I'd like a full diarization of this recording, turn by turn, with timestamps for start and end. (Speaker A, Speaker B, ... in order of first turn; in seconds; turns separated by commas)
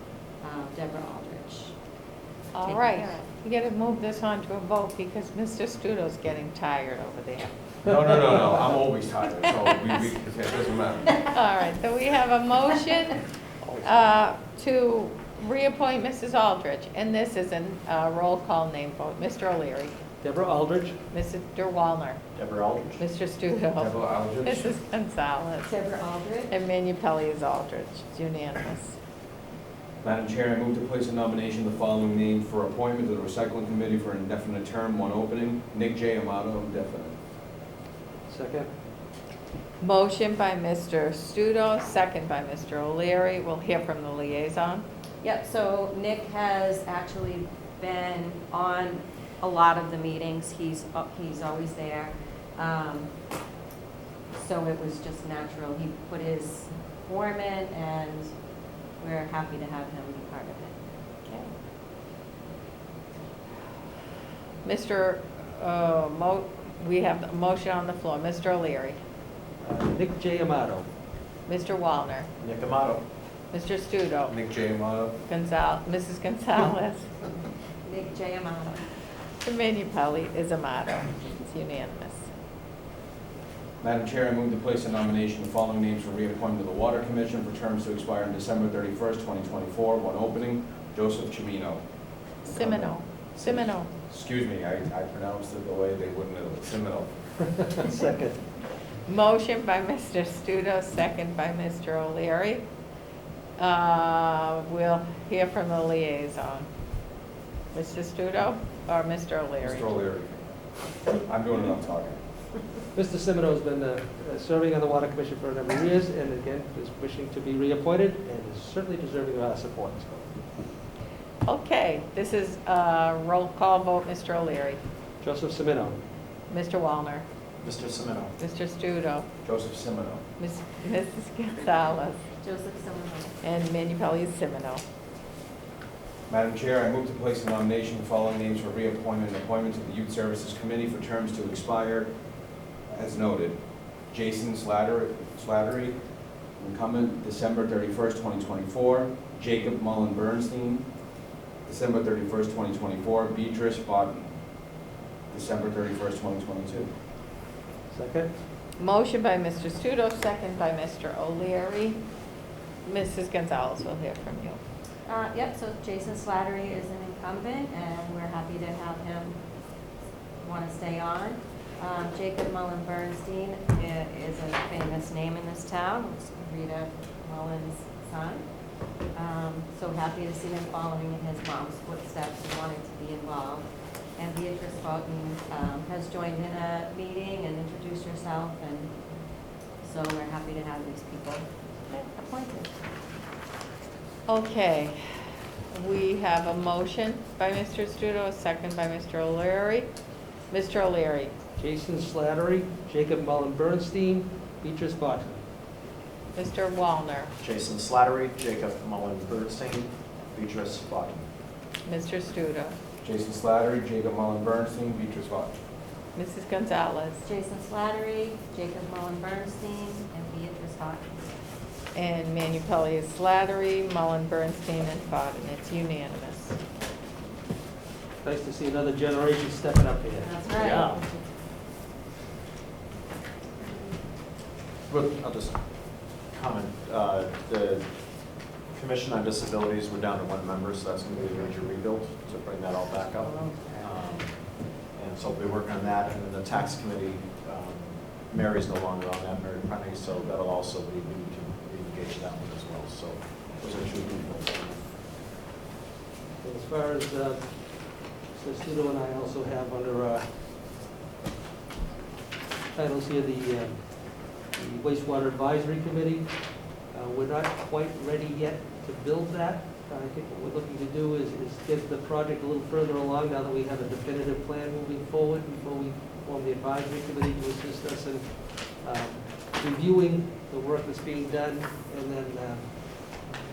Speaker A: 0.4-1.7, Speaker B: 2.5-7.5, Speaker A: 2.6-3.2, Speaker C: 7.8-11.2, Speaker B: 9.4-9.9, Speaker B: 11.2-13.2, Speaker D: 13.6-14.1, Speaker B: 13.8-20.0, Speaker D: 20.2-21.0, Speaker B: 21.1-22.2, Speaker E: 22.4-23.0, Speaker B: 23.0-25.7, Speaker C: 23.8-24.8, Speaker A: 25.6-26.6, Speaker B: 26.5-29.0, Speaker C: 30.0-37.2, Speaker D: 38.3-38.7, Speaker B: 39.8-44.9, Speaker A: 45.2-53.1, Speaker A: 54.3-58.3, Speaker A: 59.0-60.8, Speaker B: 64.6-69.0, Speaker D: 69.6-70.9, Speaker B: 71.5-72.3, Speaker E: 72.4-73.0, Speaker B: 73.5-74.4, Speaker C: 74.3-75.2, Speaker B: 75.3-77.1, Speaker A: 77.8-78.8, Speaker B: 79.4-82.2, Speaker C: 83.8-91.8, Speaker C: 92.4-97.2, Speaker B: 92.5-93.9, Speaker B: 99.1-102.6, Speaker B: 103.6-106.7, Speaker B: 107.7-110.0, Speaker C: 109.6-110.5, Speaker C: 111.2-112.2, Speaker D: 113.0-120.3, Speaker B: 121.5-124.8, Speaker D: 125.2-126.0, Speaker B: 126.5-127.2, Speaker E: 127.6-128.3, Speaker B: 128.4-129.3, Speaker C: 129.4-130.2, Speaker B: 130.4-132.2, Speaker A: 132.4-133.4, Speaker B: 133.4-134.8, Speaker C: 136.3-142.1, Speaker C: 142.9-143.6, Speaker C: 144.1-146.0, Speaker C: 146.6-150.9, Speaker C: 151.7-154.3, Speaker C: 155.3-156.9, Speaker D: 157.9-158.3, Speaker B: 158.8-162.0, Speaker B: 162.8-164.6, Speaker A: 165.1-169.4, Speaker A: 170.4-178.5, Speaker A: 179.1-188.9, Speaker A: 189.8-191.5, Speaker A: 192.0-192.7, Speaker B: 194.3-195.0, Speaker B: 195.7-199.9, Speaker B: 200.5-201.3, Speaker D: 201.6-205.4, Speaker B: 206.4-207.3, Speaker E: 207.4-211.2, Speaker B: 211.8-212.8, Speaker C: 213.0-215.6, Speaker B: 216.2-217.2, Speaker A: 217.2-221.1, Speaker B: 221.9-226.6, Speaker D: 228.2-231.0, Speaker A: 230.2-231.2, Speaker E: 230.6-231.0, Speaker A: 233.6-234.0, Speaker E: 234.9-237.9, Speaker E: 238.7-254.8, Speaker A: 243.4-243.7, Speaker D: 256.4-260.3, Speaker D: 262.7-283.2